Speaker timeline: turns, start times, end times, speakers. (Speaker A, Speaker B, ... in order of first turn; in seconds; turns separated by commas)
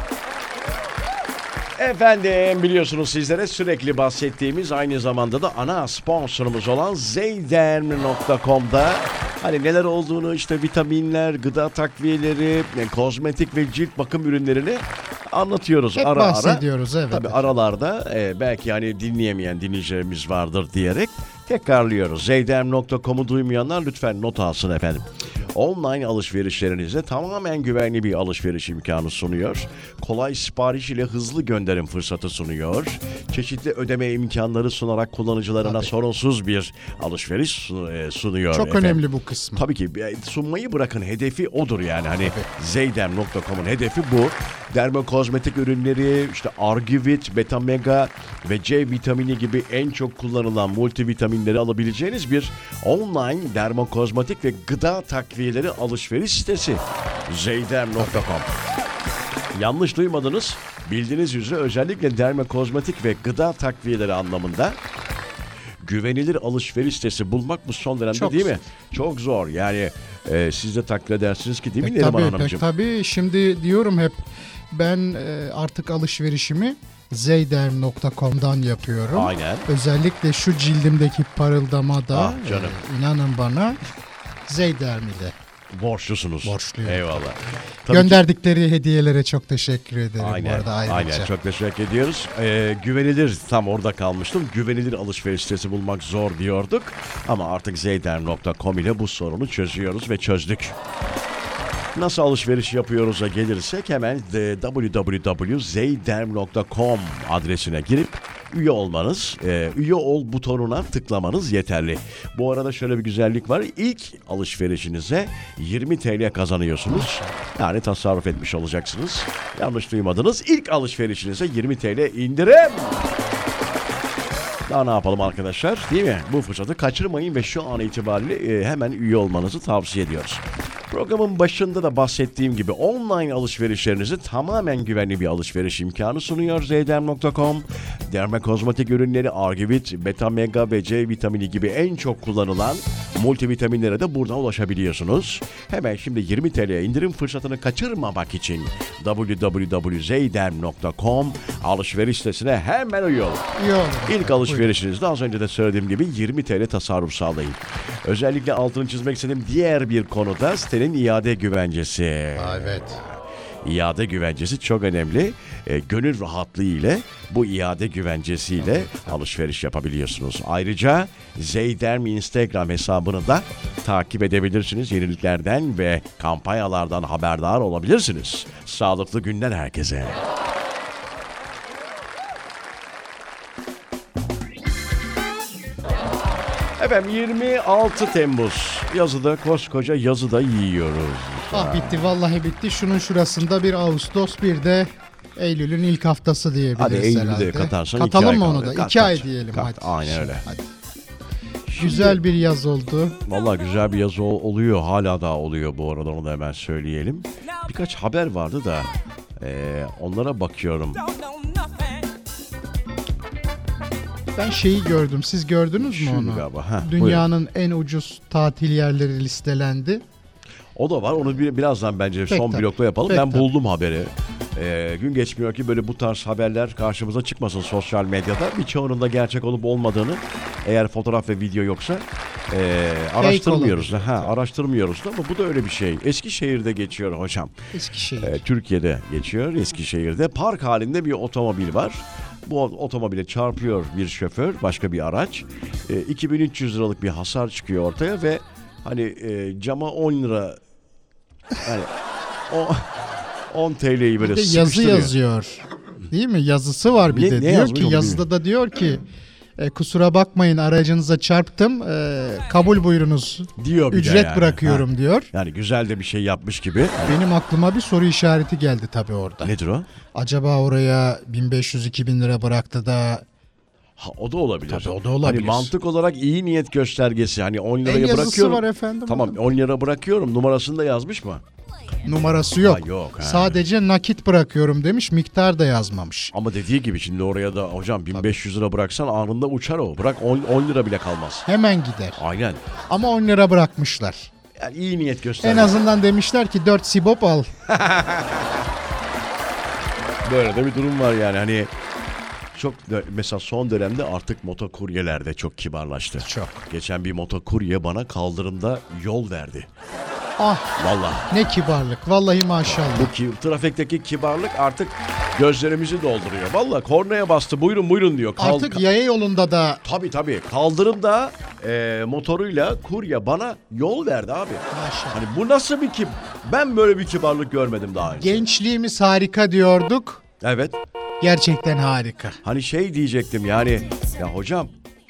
Speaker A: 1.8-39.0, Speaker B: 15.9-17.5, Speaker B: 35.6-35.9, Speaker B: 38.5-39.6, Speaker A: 39.5-58.5, Speaker B: 42.2-42.5, Speaker A: 59.5-64.8, Speaker A: 65.8-72.6, Speaker B: 68.1-68.6, Speaker B: 71.8-83.8, Speaker A: 79.1-79.7, Speaker A: 82.1-82.8, Speaker B: 84.5-85.3, Speaker A: 85.7-88.2, Speaker B: 86.4-87.2, Speaker B: 87.9-91.3, Speaker A: 90.2-100.8, Speaker A: 101.9-123.1, Speaker B: 116.9-117.4, Speaker A: 124.7-153.4, Speaker B: 153.5-154.7, Speaker A: 154.0-180.2, Speaker B: 162.3-163.0, Speaker B: 168.6-169.2, Speaker A: 186.8-192.1, Speaker B: 191.5-200.7, Speaker A: 196.7-200.4, Speaker A: 201.7-202.2, Speaker B: 201.8-203.2, Speaker A: 203.2-211.1, Speaker B: 214.4-220.0, Speaker A: 215.8-217.3, Speaker A: 220.7-237.5, Speaker B: 222.3-223.5, Speaker B: 233.2-234.3, Speaker B: 237.7-238.4, Speaker A: 238.2-250.6, Speaker A: 251.6-251.9, Speaker A: 252.5-255.1, Speaker B: 254.2-259.0, Speaker A: 257.1-258.2, Speaker B: 259.6-265.3, Speaker A: 263.6-267.2, Speaker B: 267.0-269.5, Speaker A: 269.4-269.9, Speaker B: 270.1-273.2, Speaker A: 274.0-281.4, Speaker B: 274.7-275.7, Speaker B: 277.8-279.4, Speaker B: 282.0-286.3, Speaker A: 282.6-283.6, Speaker A: 286.3-291.4, Speaker B: 291.4-292.2, Speaker A: 292.2-292.6, Speaker B: 292.9-294.3, Speaker A: 294.6-295.8, Speaker B: 295.4-297.5, Speaker A: 297.7-298.7, Speaker A: 300.2-301.7, Speaker A: 302.5-309.7, Speaker B: 306.2-306.6, Speaker B: 310.4-310.7, Speaker A: 310.8-311.3, Speaker B: 311.3-313.1, Speaker A: 312.6-318.8, Speaker B: 318.4-319.8, Speaker A: 319.8-328.4, Speaker B: 324.7-325.2, Speaker B: 328.1-330.2, Speaker A: 330.4-330.8, Speaker B: 331.2-332.4, Speaker A: 332.4-334.7